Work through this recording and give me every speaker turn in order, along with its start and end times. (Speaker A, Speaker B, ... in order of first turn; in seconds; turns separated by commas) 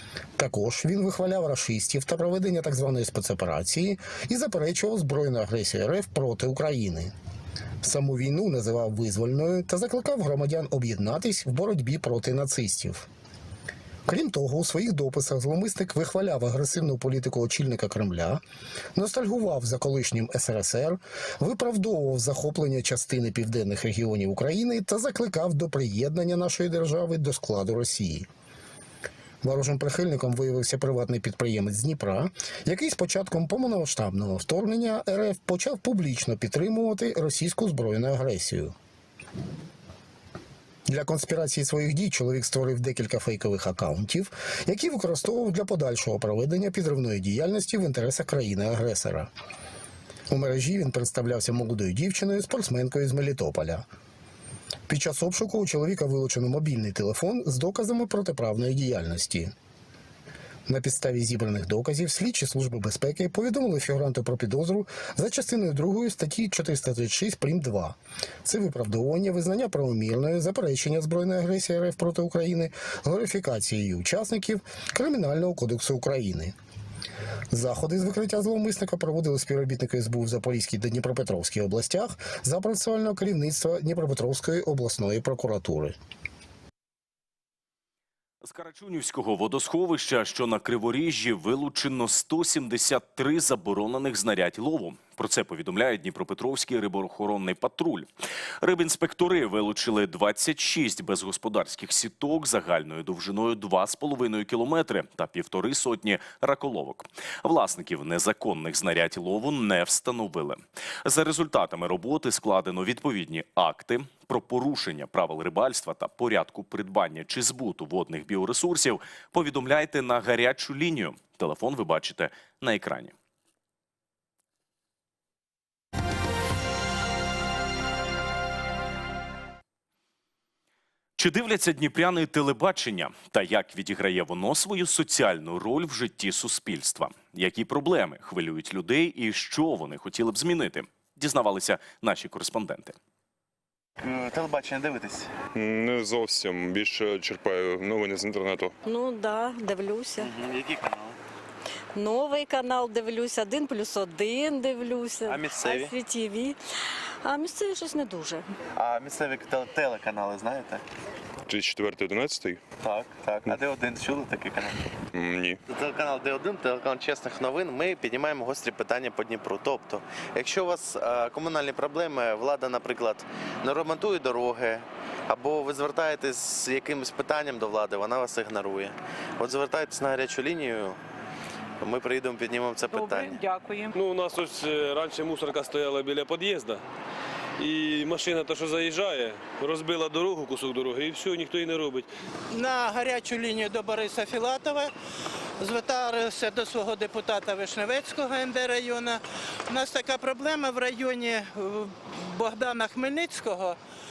Speaker A: 0.4-7.1, Speaker A: 7.8-13.1, Speaker A: 14.1-18.4, Speaker A: 18.9-28.3, Speaker A: 29.4-38.7, Speaker A: 40.9-49.3, Speaker A: 50.3-53.9, Speaker A: 54.9-59.5, Speaker A: 60.7-76.5, Speaker A: 77.5-86.0, Speaker B: 88.4-98.0, Speaker B: 98.6-123.1, Speaker B: 131.2-142.9, Speaker C: 144.0-145.4, Speaker D: 145.5-148.7, Speaker E: 148.9-150.3, Speaker C: 150.2-151.1, Speaker E: 151.9-156.6, Speaker C: 155.3-155.9, Speaker E: 157.2-158.5, Speaker C: 158.8-160.8, Speaker D: 161.5-162.6, Speaker C: 162.8-164.7, Speaker D: 165.1-165.6, Speaker C: 165.7-181.0, Speaker C: 181.8-183.4, Speaker F: 182.9-186.8, Speaker F: 187.6-192.1, Speaker G: 192.5-194.9, Speaker G: 195.6-203.8